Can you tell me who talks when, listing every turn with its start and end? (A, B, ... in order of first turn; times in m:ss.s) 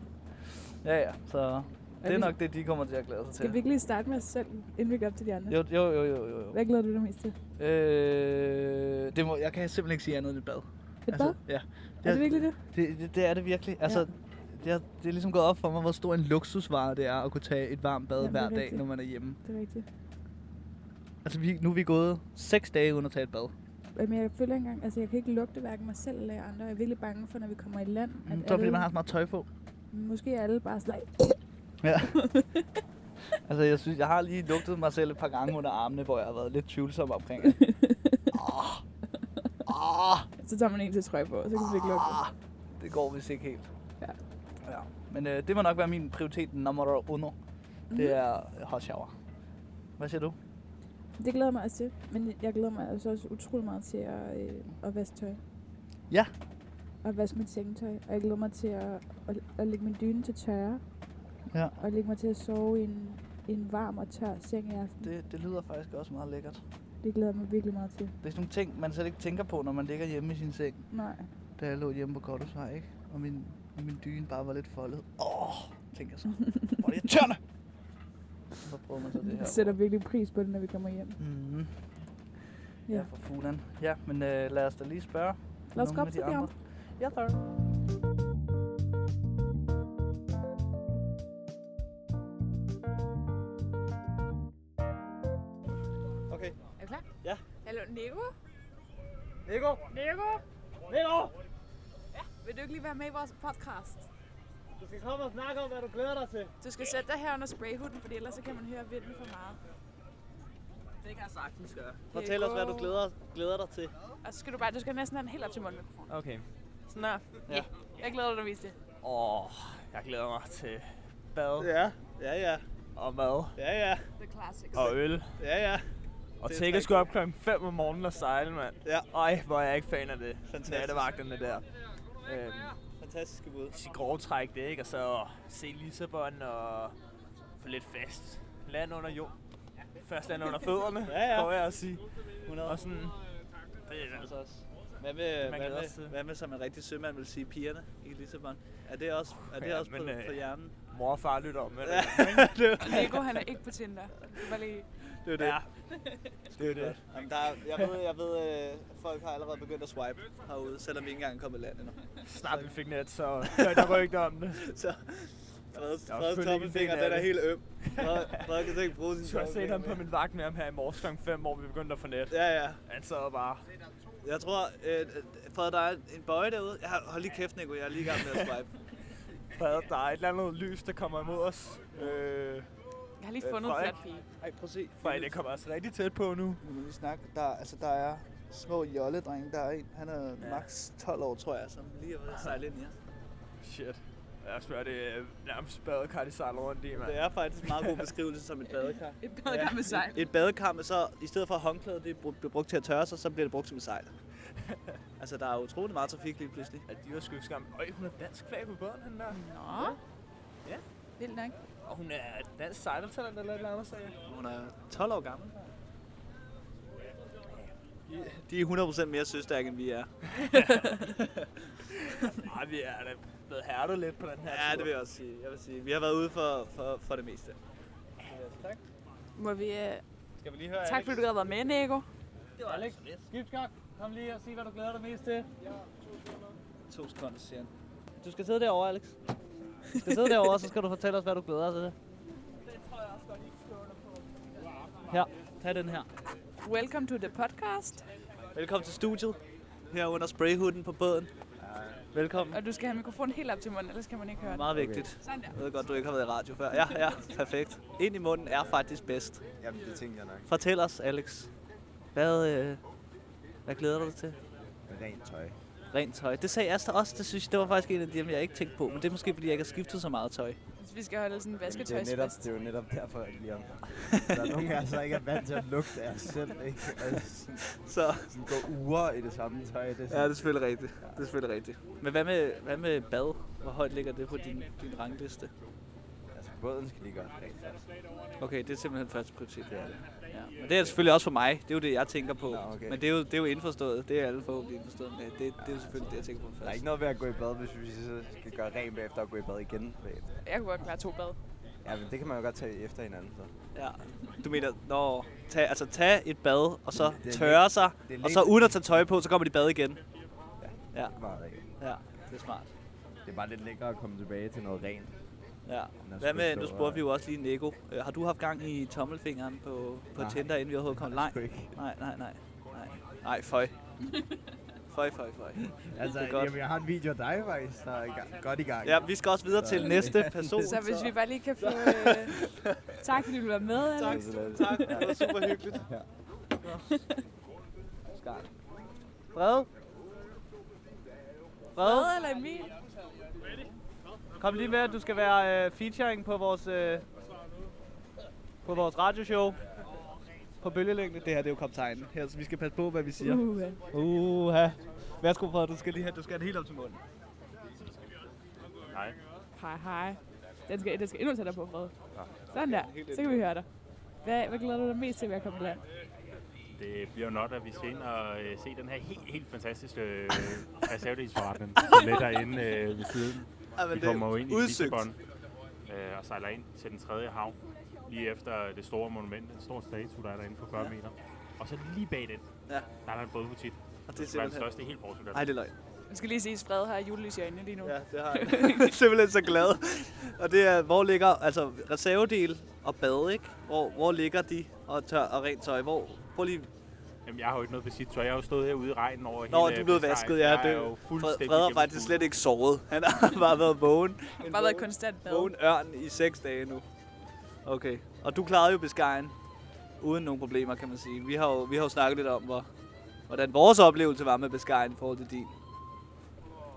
0:00.8-0:03.6 A
0:02.0-0:02.4 B
0:03.4-0:05.6 B
0:05.5-0:06.6 A
0:06.5-0:07.4 B
0:07.6-0:19.4 A
0:11.1-0:11.4 B
0:12.0-0:12.6 B
0:13.8-0:14.1 B
0:18.2-0:19.9 B
0:21.2-0:23.5 A
0:24.0-0:28.9 B
0:28.3-0:29.5 A
0:29.9-0:31.4 B
0:31.8-0:32.2 A
0:32.2-0:32.6 B
0:33.5-0:37.6 A
0:37.6-0:38.2 B
0:38.3-0:38.8 A
0:39.7-0:40.3 A
0:40.4-0:42.2 B
0:41.6-0:43.7 A
0:44.6-0:47.4 A
0:47.9-0:48.2 B
0:47.9-0:49.1 A
0:50.0-0:50.4 A
0:51.2-0:55.4 B
0:57.0-1:00.8 B
1:01.5-1:01.8 A
1:01.8-1:05.1 B
1:05.0-1:06.6 A
1:07.0-1:08.2 B
1:08.2-1:10.8 A
1:10.9-1:11.3 B
1:11.6-1:17.4 A
1:18.6-1:19.7 A
1:19.2-1:21.2 B
1:21.2-1:21.7 A
1:22.9-1:27.4 A
1:25.7-1:26.5 B
1:36.3-1:36.6 A
1:36.8-1:37.0 B
1:37.6-1:38.3 B
1:39.5-1:41.3 A
1:42.1-1:44.1 B
1:44.8-1:46.5 A
1:46.6-1:49.6 B
1:51.0-1:52.1 C
1:52.1-1:53.0 B
1:52.1-1:53.9 A
1:54.2-1:56.1 B
1:56.1-1:56.5 C
1:56.9-1:58.8 B
1:59.0-2:01.7 C
2:01.6-2:02.6 A
2:03.0-2:03.6 C
2:03.6-2:04.1 A
2:04.2-2:05.0 B
2:04.7-2:05.4 C
2:05.4-2:05.9 A
2:06.4-2:11.6 C
2:06.4-2:07.1 A
2:08.8-2:09.1 A
2:10.5-2:11.1 A
2:12.3-2:12.8 C
2:13.0-2:13.8 A
2:13.7-2:17.0 C
2:17.6-2:19.3 C
2:20.0-2:22.0 C
2:21.0-2:21.5 A
2:22.4-2:22.9 A
2:22.6-2:23.2 C
2:23.9-2:24.3 C
2:24.0-2:30.8 A
2:25.4-2:26.2 C
2:29.3-2:32.7 C
2:31.8-2:33.4 A
2:32.8-2:34.9 B
2:35.2-2:35.6 A
2:35.4-2:37.0 C
2:36.6-2:42.6 A
2:37.6-2:37.9 C
2:42.2-2:44.6 C
2:43.4-2:44.0 A
2:44.5-2:50.0 A
2:46.1-2:48.5 C
2:49.2-2:53.6 C
2:52.3-2:52.8 A
2:54.2-2:58.8 A
2:58.0-2:58.5 C
2:59.5-3:02.6 C
3:02.0-3:02.2 A
3:03.2-3:04.3 B
3:03.4-3:04.0 C
3:04.4-3:05.4 A
3:05.0-3:06.6 C
3:06.6-3:13.0 A
3:10.4-3:10.7 C
3:12.3-3:12.6 C
3:13.6-3:18.1 C
3:17.0-3:24.1 A
3:19.2-3:20.3 B
3:25.2-3:26.8 A
3:26.9-3:29.4 C
3:29.3-3:30.0 B
3:31.2-3:31.6 B
3:31.8-3:34.2 C
3:34.3-3:35.6 A
3:38.1-3:40.1 A
3:40.4-3:41.1 C
3:41.2-3:41.5 A
3:42.1-3:44.9 C
3:44.5-3:47.6 A
3:48.3-3:48.8 A
3:49.4-3:50.0 B
3:50.4-3:51.2 A
3:50.8-3:52.1 B
3:52.6-3:53.1 C
3:52.6-3:55.5 A
3:56.9-3:59.2 A
4:00.0-4:02.0 A
4:02.7-4:04.2 C
4:05.1-4:06.1 A
4:06.6-4:08.1 B
4:08.5-4:09.4 A
4:09.9-4:11.3 A
4:11.6-4:12.0 D
4:12.1-4:12.6 A
4:12.5-4:15.6 B
4:14.4-4:19.4 A
4:14.7-4:15.1 D
4:19.6-4:20.5 D
4:20.5-4:21.5 A
4:22.1-4:22.8 A
4:23.7-4:24.4 A
4:24.9-4:25.6 D
4:25.9-4:30.6 A
4:30.8-4:32.4 B
4:31.7-4:37.7 D
4:34.1-4:34.4 A
4:37.7-4:38.4 A
4:38.3-4:40.4 D
4:40.1-4:45.5 A
4:46.3-4:47.8 D
4:48.4-4:56.8 A
4:49.7-4:50.1 D
4:52.5-4:53.0 D
4:55.6-4:56.0 D
4:56.6-5:00.3 D
5:00.4-5:01.4 B
5:01.8-5:03.5 D
5:03.7-5:10.0 A
5:06.9-5:08.8 D
5:10.6-5:11.6 D
5:11.8-5:12.7 A
5:13.3-5:15.1 D
5:15.7-5:23.7 A
5:16.0-5:17.0 D
5:20.2-5:21.7 D
5:24.0-5:24.4 B
5:24.9-5:26.6 A
5:25.9-5:30.7 D
5:28.8-5:32.8 A
5:30.6-5:32.4 B
5:33.0-5:35.6 B
5:33.9-5:35.9 A
5:34.0-5:36.1 D
5:36.6-5:37.0 A
5:36.9-5:37.2 B
5:38.1-5:38.5 A
5:39.3-5:39.7 A
5:41.8-5:42.1 A
5:41.8-5:42.7 B
5:44.4-5:47.1 A
5:48.6-5:49.6 A
5:50.6-5:57.0 A
5:53.2-5:53.8 B
5:58.9-5:59.2 E
5:59.6-6:02.0 B
6:02.5-6:03.7 B
6:02.5-6:03.5 A
6:04.2-6:05.8 B
6:06.8-6:15.2 E
6:13.8-6:15.1 A
6:15.8-6:22.4 E
6:23.0-6:25.5 E
6:24.1-6:24.7 A
6:25.3-6:25.7 A
6:26.1-6:28.9 B
6:27.8-6:36.7 A
6:37.2-6:42.3 E
6:39.5-6:46.9 A
6:44.4-6:45.5 B
6:47.6-6:49.4 A
6:50.0-6:52.7 A
6:53.3-6:55.5 A